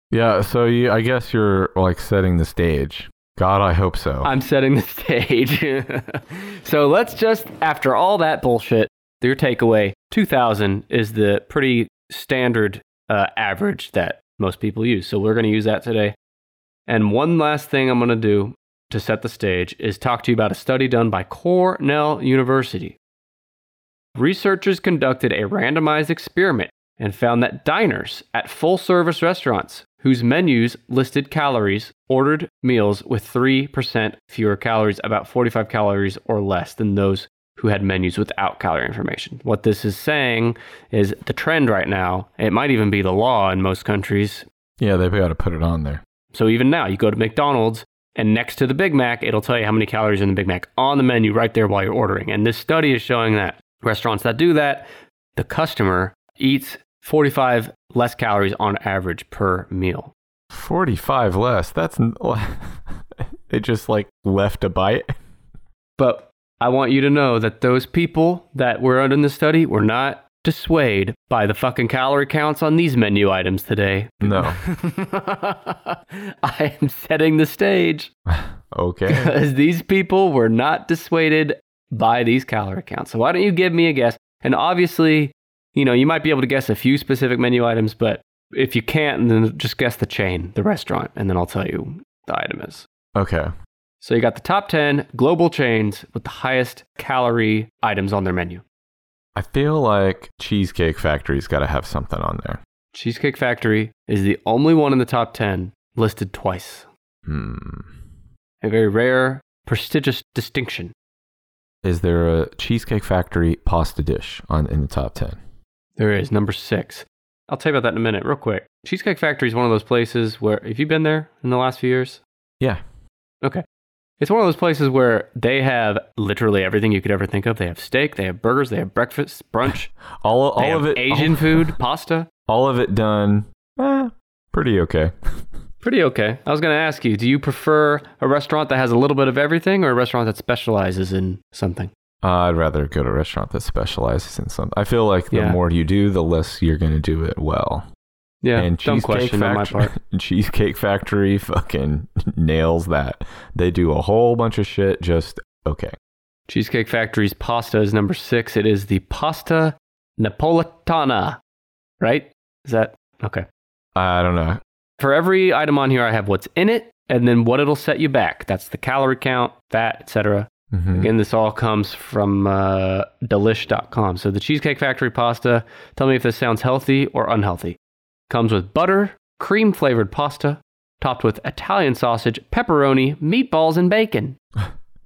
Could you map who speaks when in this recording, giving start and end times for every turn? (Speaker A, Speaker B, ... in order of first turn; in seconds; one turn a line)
Speaker A: 0.1-4.3
Speaker B: 4.2-16.2
Speaker B: 16.9-23.0
Speaker B: 24.2-44.5
Speaker A: 44.8-46.0
Speaker B: 46.3-60.1
Speaker A: 60.5-65.1
Speaker B: 66.0-78.1
Speaker A: 74.2-74.6
Speaker A: 78.3-79.3
Speaker B: 79.1-92.9
Speaker A: 93.2-93.5
Speaker B: 94.0-98.6
Speaker A: 99.4-102.6
Speaker B: 102.9-106.9
Speaker A: 107.3-107.9
Speaker B: 108.6-111.0
Speaker A: 111.8-115.4
Speaker B: 116.0-122.2
Speaker B: 124.2-129.9
Speaker A: 130.2-131.8
Speaker B: 130.6-132.3
Speaker A: 132.5-135.4
Speaker B: 135.8-141.9
Speaker A: 142.2-147.9
Speaker B: 145.3-145.6
Speaker B: 148.4-149.9
Speaker A: 148.6-155.9
Speaker B: 156.5-161.4
Speaker B: 162.0-163.5
Speaker A: 164.0-164.6
Speaker B: 165.0-177.8
Speaker A: 170.7-171.1
Speaker B: 178.3-184.4